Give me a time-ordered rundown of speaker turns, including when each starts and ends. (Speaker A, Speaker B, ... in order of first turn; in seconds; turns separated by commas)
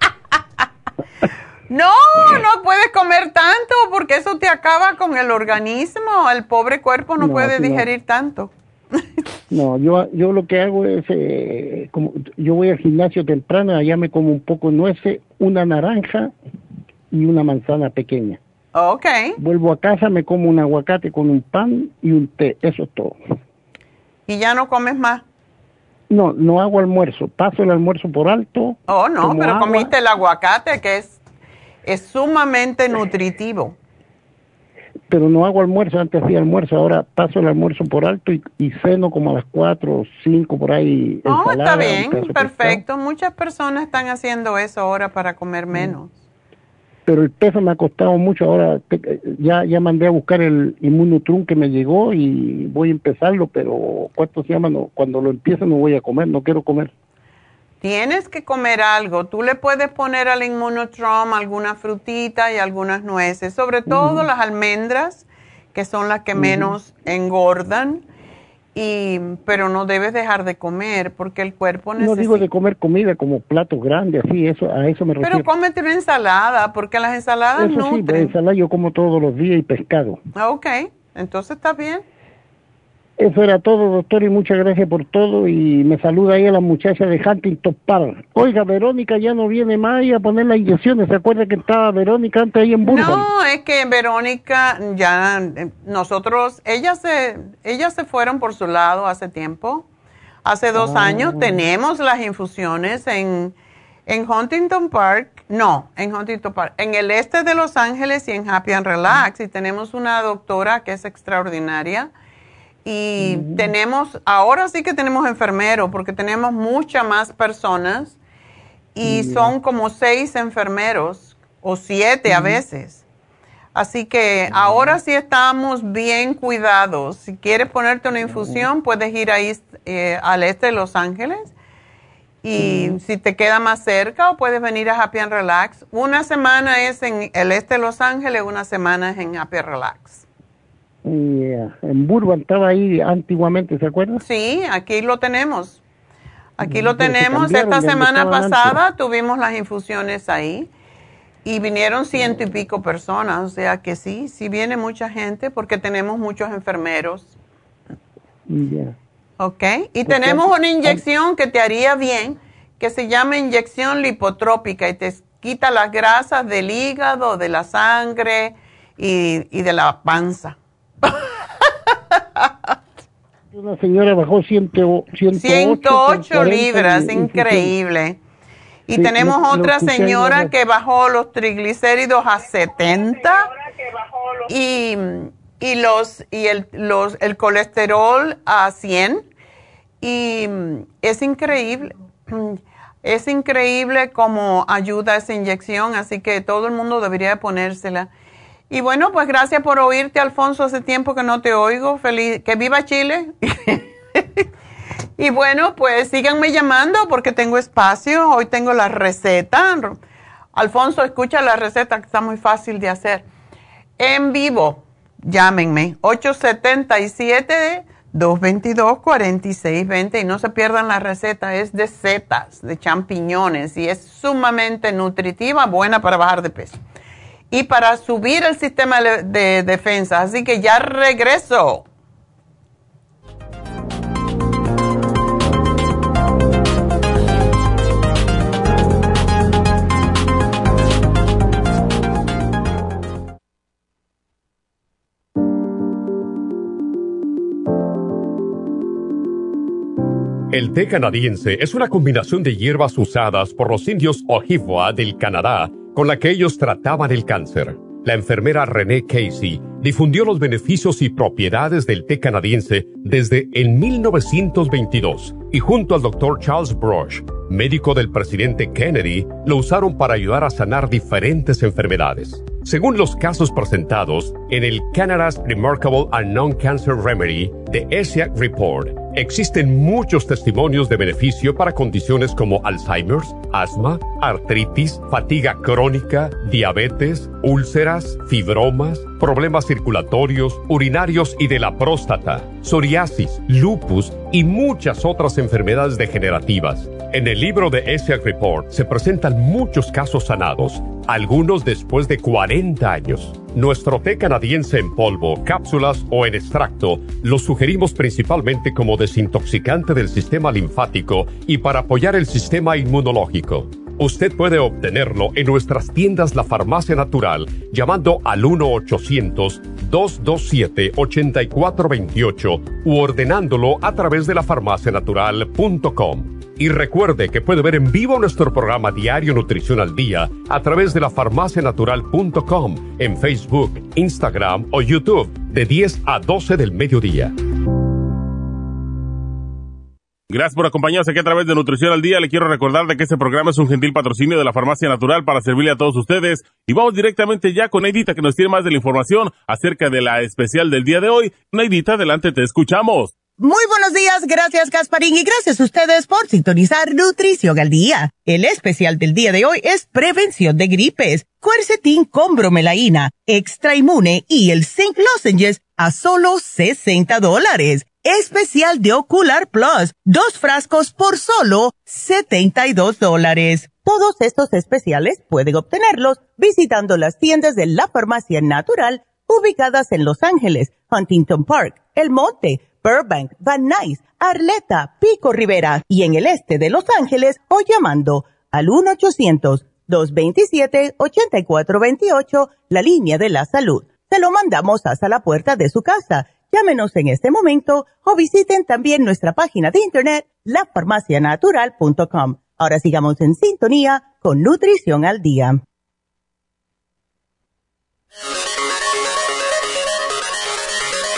Speaker A: 1.7-8.5, Speaker B: 7.2-7.9, Speaker B: 9.5-16.3, Speaker B: 17.1-18.4, Speaker A: 18.7-19.4, Speaker B: 19.4-23.1, Speaker A: 24.3-25.2, Speaker B: 26.1-29.9, Speaker A: 28.9-31.2, Speaker A: 31.9-33.8, Speaker B: 35.1-42.8, Speaker A: 41.2-46.1, Speaker B: 47.1-56.9, Speaker A: 57.8-68.0, Speaker B: 63.9-64.3, Speaker B: 66.3-66.8, Speaker A: 68.7-72.5, Speaker B: 72.0-75.5, Speaker A: 75.2-78.3, Speaker B: 77.6-80.2, Speaker A: 80.3-82.0, Speaker B: 83.2-93.3, Speaker A: 92.8-99.8, Speaker A: 100.4-103.5, Speaker B: 100.7-101.6, Speaker A: 104.1-112.1, Speaker A: 112.8-118.2, Speaker B: 113.2-113.7, Speaker A: 118.9-123.0, Speaker B: 119.0-119.5, Speaker B: 122.2-122.6, Speaker A: 123.7-131.5, Speaker B: 124.5-124.9, Speaker B: 128.2-128.6, Speaker A: 132.4-140.2, Speaker B: 132.6-133.0, Speaker B: 141.0-144.2, Speaker A: 144.2-145.8, Speaker A: 146.6-150.7, Speaker B: 146.6-148.8, Speaker A: 151.4-157.3, Speaker B: 158.5-158.9, Speaker A: 159.4-171.2, Speaker B: 160.1-161.0, Speaker B: 173.5-177.7, Speaker A: 175.3-178.2, Speaker A: 178.9-183.5, Speaker B: 178.9-180.5, Speaker A: 184.4-189.3, Speaker A: 190.0-198.1, Speaker A: 198.7-204.4, Speaker A: 205.2-210.0, Speaker A: 210.5-213.2, Speaker A: 214.0-226.8, Speaker A: 227.5-231.8, Speaker C: 250.5-337.3, Speaker D: 340.3-353.1, Speaker E: 353.4-405.6